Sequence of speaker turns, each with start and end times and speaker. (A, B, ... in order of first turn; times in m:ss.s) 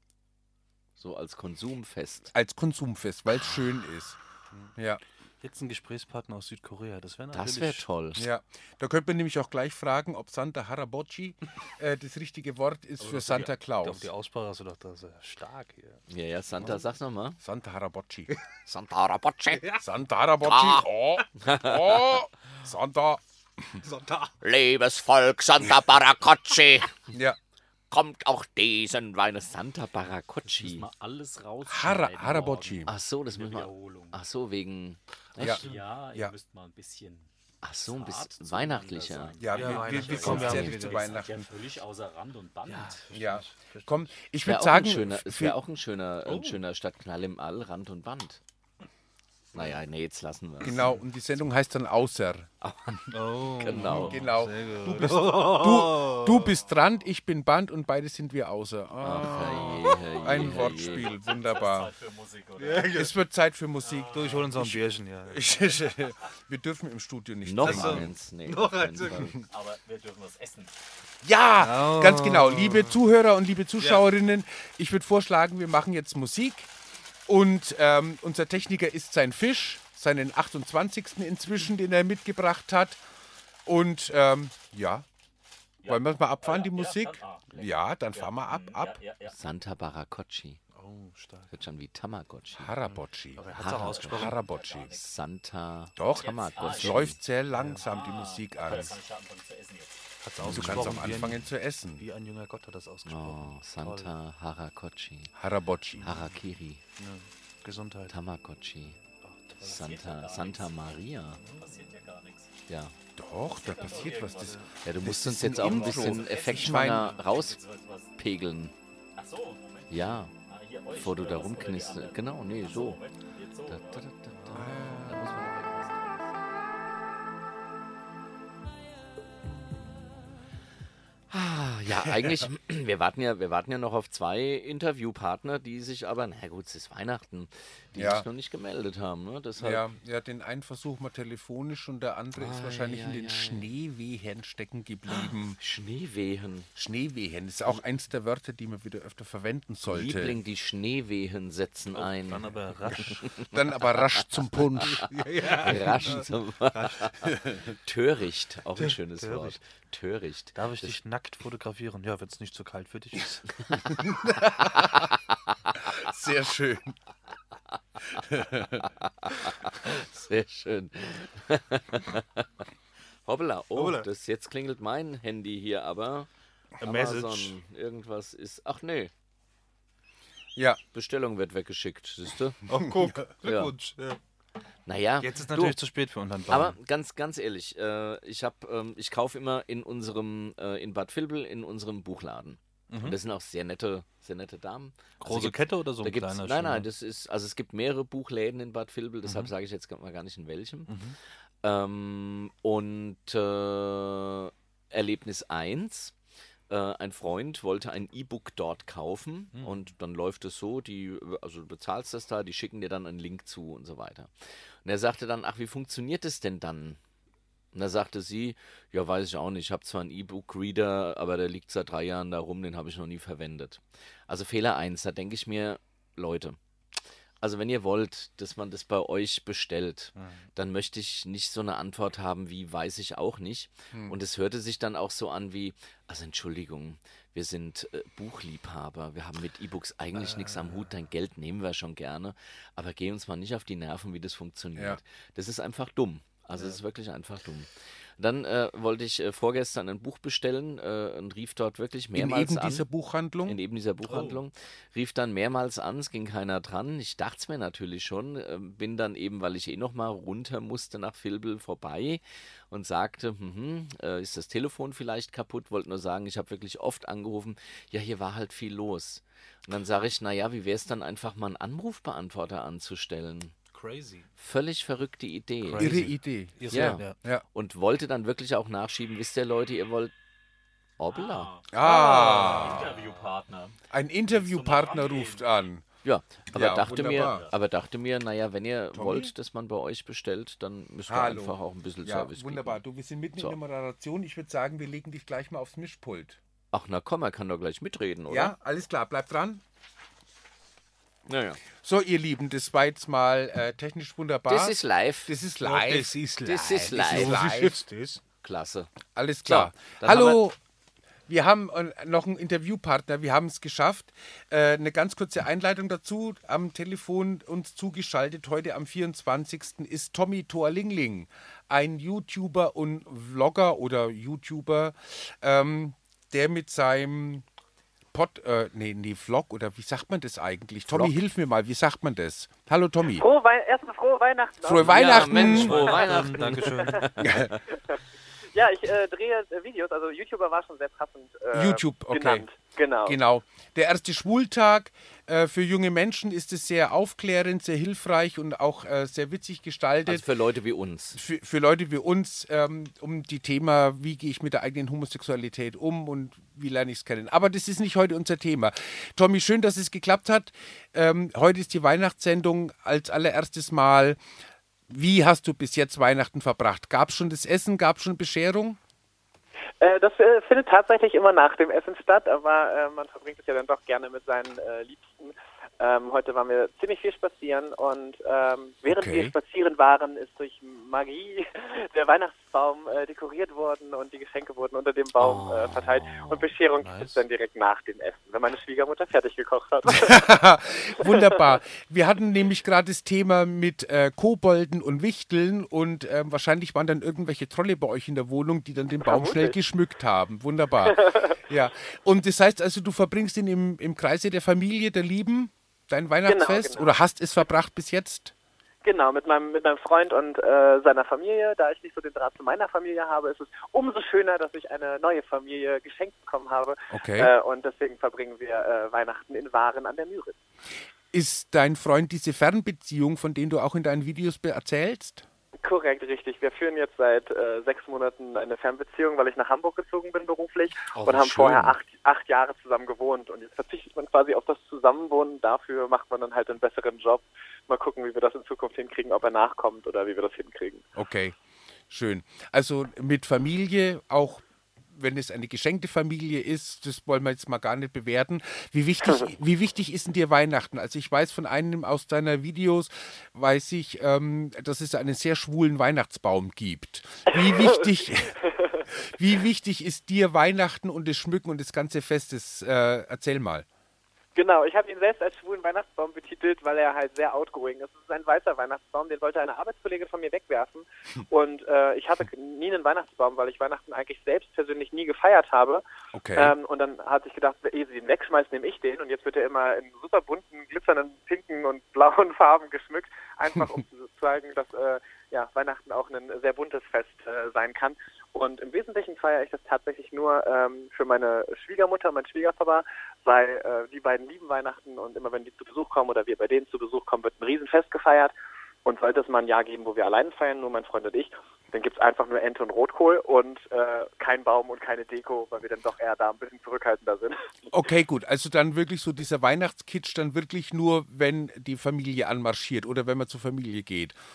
0:01.0-0:02.3 A
0:02.3-0:04.2 B
0:05.4-0:07.8 C
0:07.3-0:08.2 A
0:08.2-0:14.1 B
0:13.0-0:16.0 C
0:16.1-0:17.4 A
0:17.4-0:18.3 B
0:18.6-0:19.6 A
0:19.7-0:23.8 B
0:20.4-0:20.8 A
0:21.4-0:21.7 A
0:23.8-0:24.3 C
0:24.4-0:26.9 A
0:27.1-0:27.4 B
0:27.9-0:30.9 A
0:30.4-0:34.2 D
0:31.6-0:32.9 B
0:32.9-0:35.6 A
0:35.4-0:37.3 D
0:35.4-0:36.3 B
0:35.5-0:35.8 C
0:37.6-0:39.4 A
0:37.8-0:43.1 D
0:39.4-0:41.5 B
0:39.5-0:41.1 C
0:40.2-0:40.8 A
0:42.7-0:44.0 C
0:43.1-0:45.6 B
0:44.4-0:48.4 A
0:46.2-0:46.6 C
0:49.5-0:50.8 A
0:50.6-0:52.5 B
0:50.7-0:51.0 C
0:52.6-0:54.2 A
0:53.1-0:56.5 C
0:53.8-1:01.9 B
0:59.0-1:01.1 A
0:59.3-0:59.9 C
1:00.2-1:03.1 D
1:02.6-1:03.1 C
1:02.9-1:08.1 B
1:03.8-1:04.5 D
1:04.1-1:05.4 C
1:07.4-1:09.4 A
1:07.6-1:09.3 C
1:09.4-1:10.8 D
1:11.2-1:16.7 B
1:11.6-1:13.0 C
1:13.8-1:14.0 C
1:17.3-1:23.0 B
1:23.6-1:25.0 B
1:25.8-1:29.4 D
1:25.8-1:29.0 B
1:29.3-1:30.6 A
1:30.7-1:31.5 C
1:31.5-1:32.7 A
1:32.6-1:33.4 B
1:32.9-1:34.4 C
1:33.4-1:35.1 D
1:33.6-1:34.3 A
1:34.0-1:34.9 B
1:34.9-1:37.2 A
1:36.0-1:39.0 B
1:36.2-1:37.1 D
1:37.5-1:37.8 C
1:37.8-1:40.0 D
1:40.2-1:41.5 C
1:40.4-1:41.1 A
1:40.4-1:42.0 B
1:42.0-1:44.1 C
1:43.0-1:45.3 A
1:45.3-1:46.1 B
1:46.0-1:46.3 C
1:46.0-1:46.8 A
1:47.0-1:48.1 C
1:48.1-1:49.0 A
1:49.2-1:49.8 C
1:49.6-1:50.7 D
1:49.6-1:51.4 A
1:51.4-1:51.9 C
1:51.5-1:52.5 D
1:52.7-1:52.9 A
1:53.2-1:57.1 B
1:53.5-1:54.7 D
1:54.8-1:57.6 A
1:55.5-1:58.1 D
1:58.2-1:58.7 A
1:59.2-2:06.4 D
1:59.9-2:00.3 A
2:00.9-2:03.0 A
2:03.7-2:05.6 A
2:04.3-2:04.9 C
2:04.5-2:05.4 B
2:11.3-2:19.9 A
2:17.9-2:18.3 B
2:19.6-2:25.6 B
2:22.4-2:23.7 A
2:25.1-2:26.7 A
2:26.7-2:30.4 B
2:29.8-2:34.2 A
2:31.9-2:33.2 C
2:33.5-2:35.1 B
2:35.0-2:37.1 C
2:35.6-2:41.0 A
2:38.8-2:39.5 C
2:40.5-2:43.6 C
2:44.0-2:45.0 B
2:44.6-2:45.1 A
2:45.9-2:47.0 B
2:48.2-2:48.9 B
2:49.0-2:52.4 A
2:53.2-2:56.3 A
2:53.7-2:54.1 C
2:56.8-2:57.6 C
2:56.8-2:59.1 A
3:00.9-3:02.6 A
3:02.7-3:04.2 C
3:02.8-3:03.2 B
3:03.4-3:03.7 A
3:04.8-3:05.8 A
3:05.2-3:06.8 C
3:06.5-3:20.9 A
3:12.9-3:13.2 C
3:15.2-3:16.9 C
3:19.2-3:19.5 C
3:20.9-3:21.2 C
3:21.6-3:26.1 A
3:26.7-3:34.3 A
3:29.5-3:29.8 C
3:34.8-3:37.0 A
3:37.7-3:46.6 A
3:47.4-4:07.7 A
3:50.2-3:50.4 C
3:53.9-3:54.2 B
4:00.2-4:00.9 C
4:06.6-4:06.8 C
4:08.2-4:12.8 A
4:12.1-4:13.6 B
4:13.4-4:33.5 A
4:14.0-4:14.4 C
4:33.7-4:34.3 C
4:34.4-4:36.0 A
4:35.6-4:37.2 C
4:35.8-4:37.4 B
4:36.7-4:40.1 A
4:41.0-4:41.5 A
4:41.1-4:43.8 D
4:41.7-4:42.9 B
4:42.0-4:43.2 C
4:43.9-4:45.8 B
4:44.3-4:45.4 D
4:46.0-4:52.8 A
4:46.5-4:47.4 B
4:46.9-4:47.5 D
4:48.9-4:49.3 B
4:51.1-4:56.4 B
4:56.7-4:58.5 A
4:58.3-4:59.6 B
5:01.3-5:01.6 A
5:01.8-5:06.2 B
5:04.5-5:05.3 A
5:05.6-5:08.2 C
5:06.4-5:07.4 A
5:06.8-5:07.8 B
5:08.4-5:08.9 A
5:09.1-5:10.6 B
5:09.4-5:10.4 A
5:11.3-5:27.4 B
5:28.1-5:33.2 B
5:33.1-5:35.2 E
5:34.6-5:35.9 B
5:34.8-5:37.6 A
5:35.1-5:37.0 C
5:36.7-5:36.9 E
5:37.2-5:37.5 B
5:38.5-5:43.2 E
5:41.5-5:42.4 B
5:43.0-5:50.3 B
5:50.0-5:51.2 A
5:51.1-6:04.2 B
6:04.9-6:08.8 B
6:09.8-6:30.2 E
6:18.8-6:19.3 B
6:25.2-6:26.5 A
6:26.8-6:27.2 C
6:29.9-6:48.3 B
6:31.0-6:31.4 E
6:39.0-6:39.6 E
6:40.8-6:41.4 E
6:46.2-6:47.0 E
6:48.8-7:00.4 E
6:56.9-6:57.3 B
7:01.1-7:05.2 B
7:05.6-7:20.8 E
7:10.9-7:11.7 B
7:21.0-7:21.4 B
7:21.9-7:38.4 B
7:37.3-7:38.8 E
7:38.9-7:43.6 B
7:44.3-7:55.8 E
7:56.1-7:56.5 B
7:56.3-8:18.3 E
8:18.8-8:27.5 E
8:27.7-8:34.2 B